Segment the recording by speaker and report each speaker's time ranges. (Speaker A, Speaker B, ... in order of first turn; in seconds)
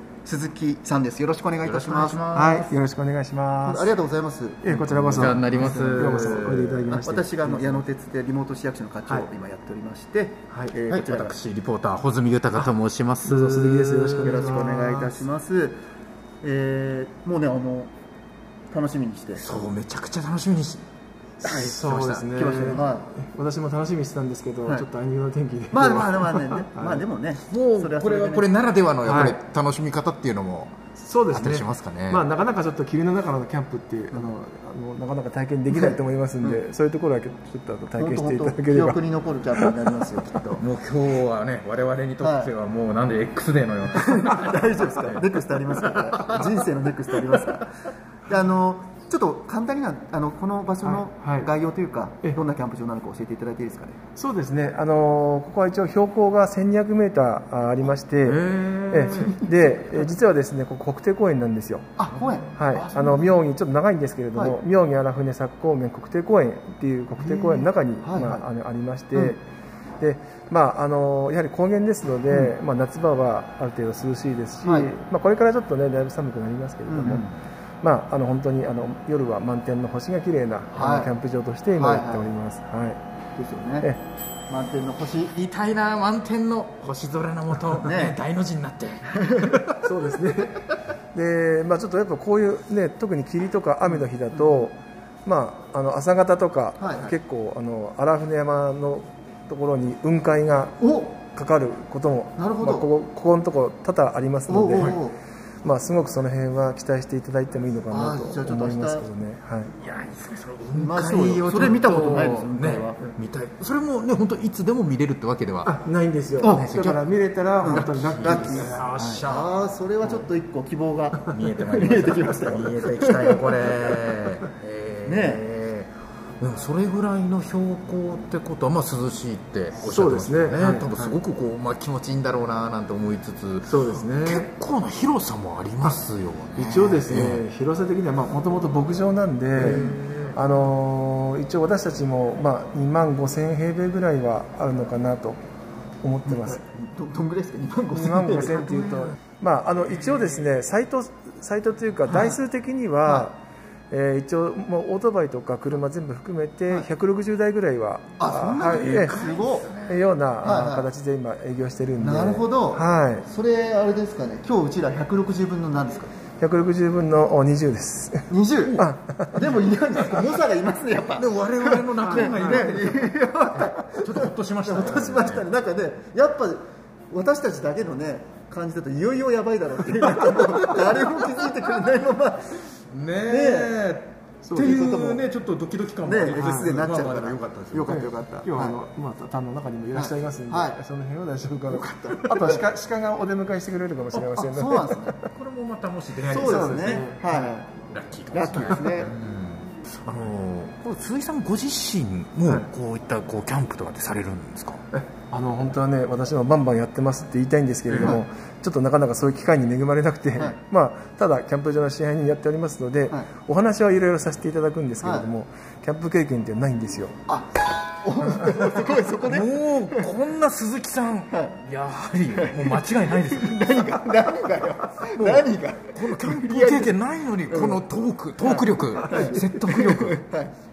Speaker A: 0.2-2.7, 3.6-11.4, 14.2-15.8, 16.4-17.9, 18.7-19.4, 22.3-23.1, 25.7-28.5, 35.7-36.6, 38.0-40.6, 42.2-42.5, 43.9-47.7, 48.3-54.0, 59.1-59.5, 62.0-63.3, 67.2-68.4, 74.6-74.9, 76.9-77.4, 80.7-81.1, 81.8-82.3, 83.4-83.9, 84.5-85.3, 87.8-88.2, 89.1-89.6, 93.8-94.7, 96.8-97.1, 100.8-101.2, 102.4-102.9, 104.5-105.2, 107.9-109.1, 110.8-113.0, 116.4-116.8, 117.6-124.0, 125.0-125.5, 139.6-140.0, 146.2-149.1, 152.1-152.4, 158.2-159.7, 160.4-160.9, 162.0-166.1, 168.3-182.7, 183.3-183.7, 184.6-185.2, 186.1-188.8, 189.9-190.8, 191.7-192.7, 194.3-195.2, 196.3-197.8, 198.3-199.2, 215.0-215.3, 217.3-220.1, 221.3-221.6, 222.3-227.8, 228.4-230.5
Speaker B: 1.6-2.7, 5.1-6.9, 10.7-14.6, 19.4-20.8, 21.4-22.8, 27.5-30.8, 31.3-32.3, 40.6-45.2, 47.4-47.6, 58.2-59.4, 85.3-89.8, 109.8-115.7, 116.4-117.0, 117.6-120.2, 121.3-137.4, 139.6-140.4, 158.5-160.1, 170.0-170.3, 171.2-175.4, 182.9-188.0, 195.2-197.3, 197.9-204.8, 207.9-208.2, 218.6-224.0, 225.0-230.2
Speaker C: 2.7-3.9, 4.6-7.8, 13.2-15.2, 21.4-27.0, 29.0-29.4, 31.0-39.0, 39.5-40.0, 44.3-45.2, 46.1-46.5, 50.8-51.5, 54.2-61.9, 62.5-69.4, 70.0-77.2, 77.8-83.0, 89.8-105.0, 105.6-109.7, 115.7-118.8, 129.8-131.2, 133.7-134.5, 136.6-145.4, 146.0-146.7, 147.9-159.2, 159.9-163.2, 166.4-169.5, 172.0-172.8, 179.9-181.0, 184.4-184.8, 187.9-195.3, 196.3-197.5, 204.9-217.2